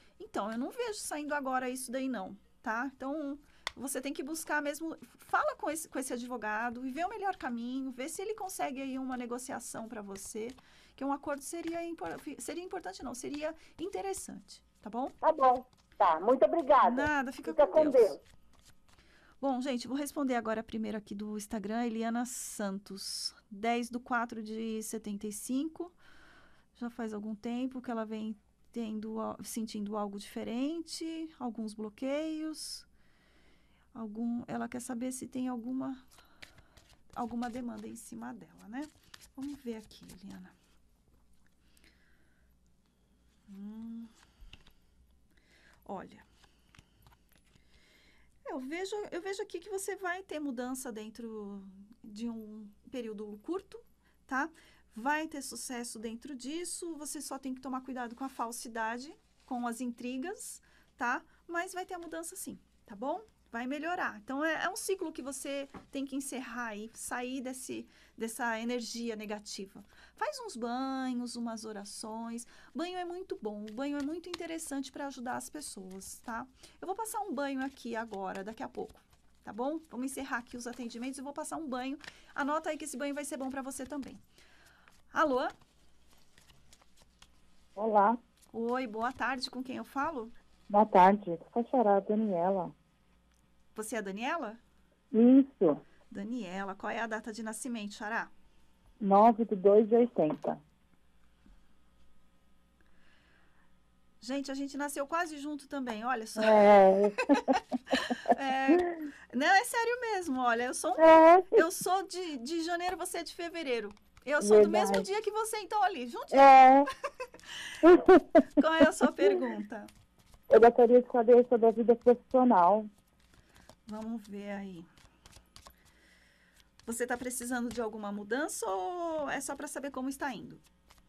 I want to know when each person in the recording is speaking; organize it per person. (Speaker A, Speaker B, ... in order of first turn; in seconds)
Speaker A: 0.2-15.2, 16.8-18.1, 19.4-25.9, 26.8-32.9, 34.0-36.0, 37.1-40.5, 43.5-44.1, 45.9-46.3, 48.5-84.2, 85.1-85.5, 88.5-90.3, 93.8-94.6, 96.1-98.3, 104.2-106.6, 108.3-116.6, 118.6-119.9, 123.9-124.9, 126.9-130.6
Speaker B: 15.2-18.2
Speaker C: 87.8-88.2, 90.7-92.7, 95.1-95.8, 99.0-100.6, 106.4-107.6, 111.0-111.6, 114.4-115.1, 116.3-116.9, 117.8-118.5, 120.5-122.9